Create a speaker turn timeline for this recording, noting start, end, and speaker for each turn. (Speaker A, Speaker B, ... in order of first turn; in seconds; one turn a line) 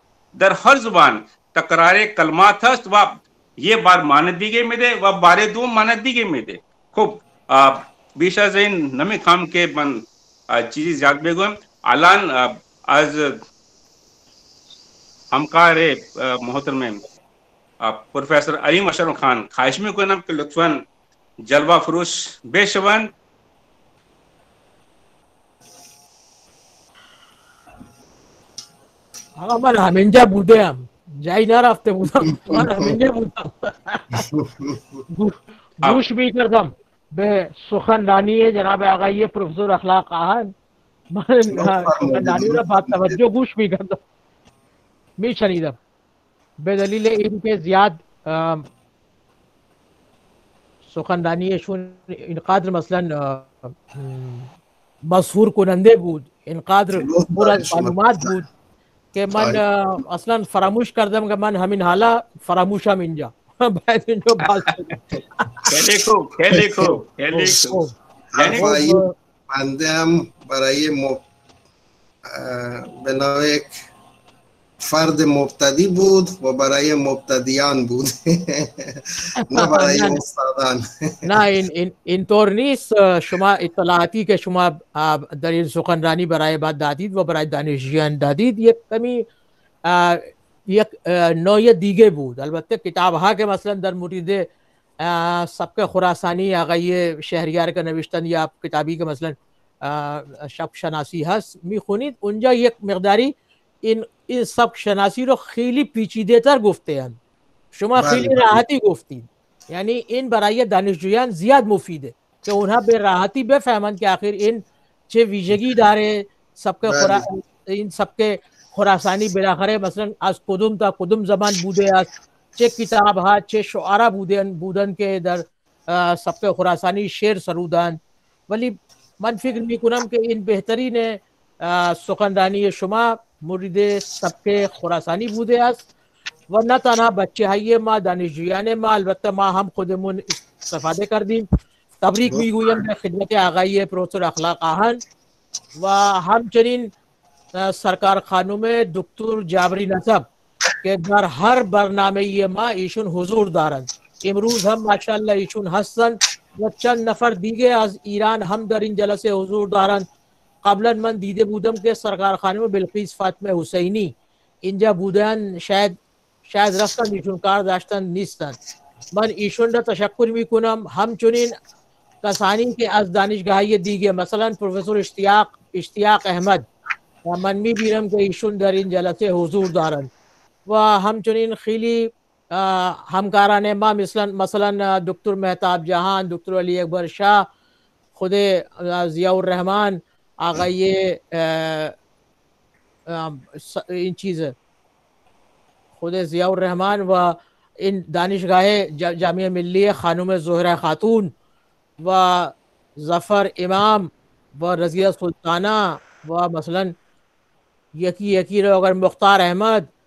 Speaker A: 0.3-13.4
Speaker A: 15.3-17.0
Speaker A: 17.8-20.8
Speaker A: 21.4-23.1
Speaker B: 29.4-34.2
Speaker C: 32.4-33.0
Speaker C: 34.1-35.0
Speaker B: 35.1-40.5
Speaker B: 41.1-44.0
Speaker C: 41.5-43.2
Speaker B: 45.2-45.8
Speaker B: 46.6-48.6
Speaker B: 50.9-54.5
Speaker B: 55.1-58.5
Speaker C: 56.9-58.3
Speaker B: 59.1-65.6
Speaker C: 59.3-59.6
Speaker A: 65.7-67.7
Speaker C: 66.5-67.7
Speaker B: 67.5-67.9
Speaker C: 68.3-71.2
Speaker A: 68.4-68.8
Speaker B: 68.5-69.1
Speaker C: 72.2-73.8
Speaker C: 74.8-81.4
Speaker B: 79.4-80.2
Speaker B: 81.2-89.2
Speaker B: 89.9-94.5
Speaker B: 95.0-107.2
Speaker B: 107.7-128.0
Speaker C: 108.0-108.6
Speaker C: 116.8-117.2
Speaker B: 128.5-135.8
Speaker B: 136.5-141.4
Speaker B: 142.0-145.0
Speaker C: 142.3-142.8
Speaker B: 145.8-146.9
Speaker B: 147.5-150.3
Speaker B: 150.8-160.1
Speaker B: 160.6-164.1
Speaker B: 164.6-165.9
Speaker B: 166.5-168.6
Speaker B: 169.1-171.5
Speaker B: 172.2-176.6
Speaker B: 177.2-180.1
Speaker B: 180.7-187.4
Speaker B: 188.2-191.9
Speaker B: 193.1-194.5
Speaker B: 196.0-201.3
Speaker B: 202.0-206.9
Speaker B: 208.0-209.9